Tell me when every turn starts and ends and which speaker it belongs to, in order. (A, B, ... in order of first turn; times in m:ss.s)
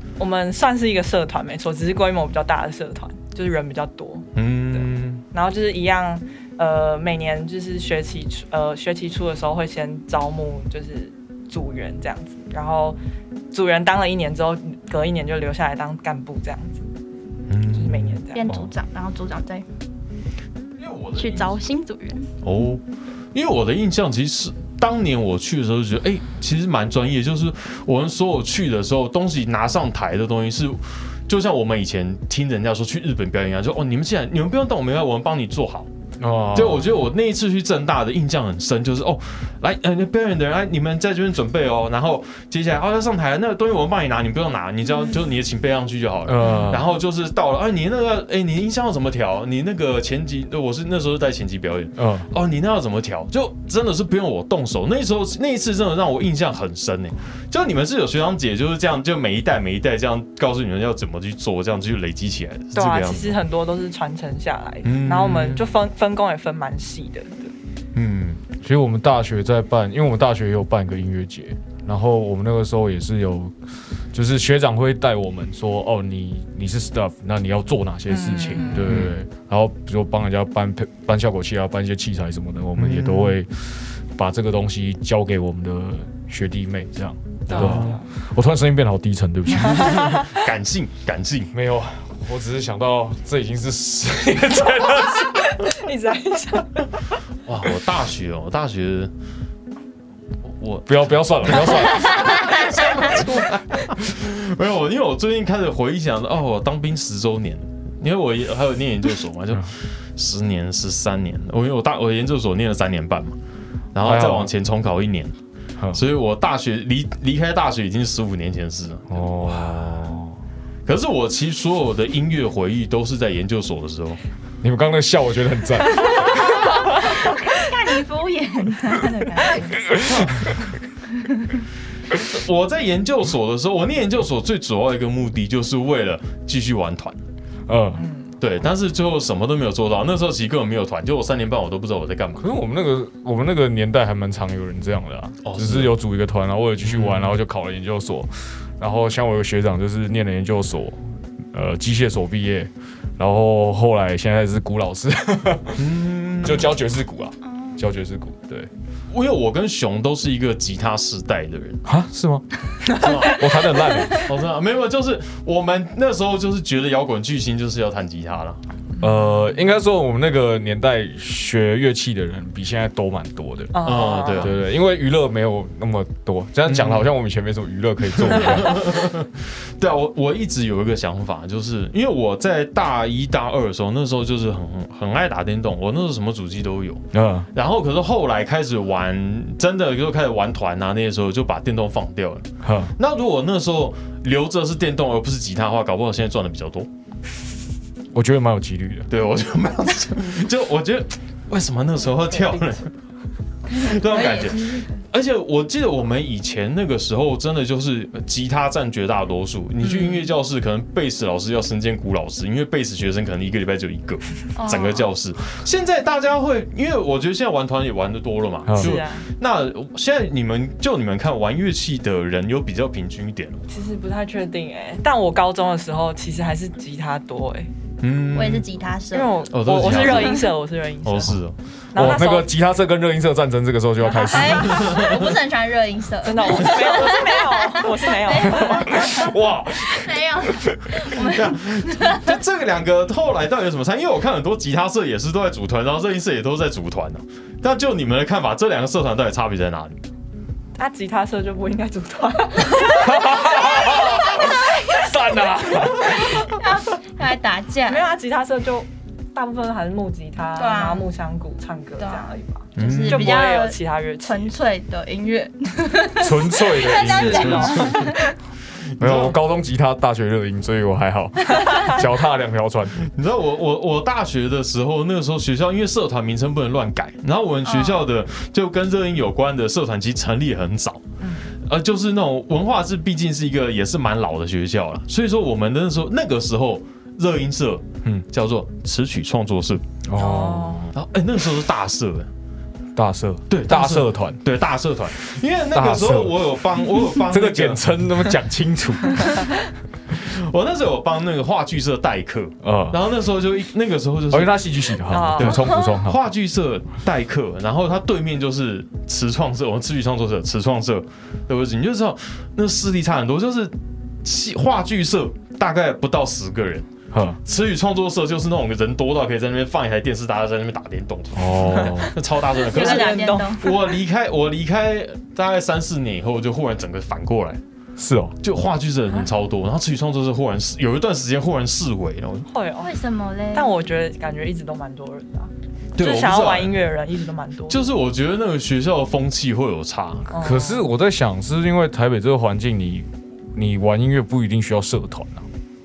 0:00.2-0:13.0 A
0:04.4-0:05.2 B
0:13.5-0:16.8 A
0:17.5-0:18.2 B
0:17.7-0:18.5 A
0:18.3-0:19.6 C
0:20.8-0:21.6 B
0:21.2-0:22.3 C
0:22.4-0:22.8 B
0:23.3-0:35.9 B
0:36.2-0:37.0 D
0:36.5-1:03.4 B
0:46.3-0:46.9 D
0:52.0-0:52.3 D
1:02.7-1:07.5 A
1:04.8-1:05.6 B
1:07.9-1:08.4 B
1:08.6-1:13.6 D
1:14.1-1:30.2 D
1:18.1-1:18.9 A
1:18.7-1:19.2 B
1:22.8-1:23.4 B
1:27.5-1:28.0 B
1:27.5-1:28.0 A
1:29.6-1:31.5 B
1:31.5-1:35.5 D
1:35.3-1:36.9 A
1:37.5-1:39.1 B
1:40.4-1:53.4 B
1:40.9-1:42.7 D
1:53.9-1:55.4 B
1:54.0-1:54.5 D
1:55.9-2:00.0 B
1:59.1-2:00.4 D
2:00.9-2:04.2 B
2:04.6-2:06.8 D
2:06.3-2:10.0 C
2:09.9-2:10.3 D
2:10.0-2:10.5 B
2:11.2-2:11.5 C
2:12.1-2:17.2 B
2:17.7-2:18.0 D
2:18.0-2:18.3 A
2:18.4-2:22.5 B
2:22.4-2:38.7 D
2:25.4-2:26.0 B
2:26.8-2:27.4 B
2:35.8-2:36.8 B
2:37.4-2:37.8 C
2:39.1-2:41.8 B
2:41.8-2:42.4 D
2:42.9-2:43.2 A
2:42.9-2:48.6 B
2:43.0-2:44.3 D
2:49.0-2:59.0 D
2:53.7-2:54.6 A
2:53.8-2:54.6 B
2:56.7-2:57.1 B
2:58.1-3:16.9 B
3:07.1-3:07.5 D
3:12.6-3:12.9 D
3:18.1-3:19.1 D
3:19.1-3:22.9 B
3:22.3-3:22.8 A
3:23.7-3:25.0 C
3:23.7-3:43.6 B
3:29.8-3:30.3 A
3:34.6-3:35.1 C
3:38.7-3:39.0 D
3:38.8-3:39.3 A
3:43.7-3:47.7 A
3:48.0-3:48.7 B
3:48.3-3:50.5 C
3:49.1-3:51.4 A
3:49.5-3:50.5 B
3:51.0-3:51.6 B
3:51.9-3:52.5 A
3:52.0-3:55.0 D
3:54.1-4:02.4 C
3:54.6-3:55.4 B
3:56.2-3:59.1 A
3:58.7-4:01.0 D
4:01.2-4:10.0 B
4:10.8-4:14.6 A
4:12.9-4:16.6 D
4:14.3-4:14.8 C
4:16.0-4:18.1 C
4:17.9-4:24.5 A
4:20.6-4:21.1 C
4:22.0-4:28.3 C
4:22.8-4:23.4 B
4:26.2-4:27.9 D
4:26.8-4:28.1 A
4:27.4-4:28.1 B
4:29.0-4:29.4 B
4:29.0-4:33.1 D
4:31.6-4:32.0 A
4:33.0-4:41.0 B
4:37.7-4:38.0 C
4:41.2-4:41.5 A
4:41.6-4:49.9 B
4:50.1-4:50.9 D
4:50.2-4:50.9 A
4:50.9-4:52.3 B
4:53.0-4:54.4 D
4:53.5-4:57.9 B
4:55.7-4:56.5 D
4:57.1-4:59.5 D
5:00.1-5:04.7 B
5:02.6-5:03.0 D
5:04.3-5:06.2 D
5:05.1-5:05.7 A
5:05.4-5:16.9 B
5:17.1-5:17.4 D
5:17.4-5:27.6 B
5:21.3-5:22.1 D
5:22.6-5:23.9 A
5:22.7-5:23.8 C
5:28.0-5:28.4 D
5:28.4-5:32.5 B
5:32.5-5:32.9 A
5:32.8-5:33.7 C
5:33.5-5:37.8 A
5:36.0-5:36.8 B
5:37.7-5:40.3 B
5:40.3-5:40.9 A
5:40.4-5:45.5 D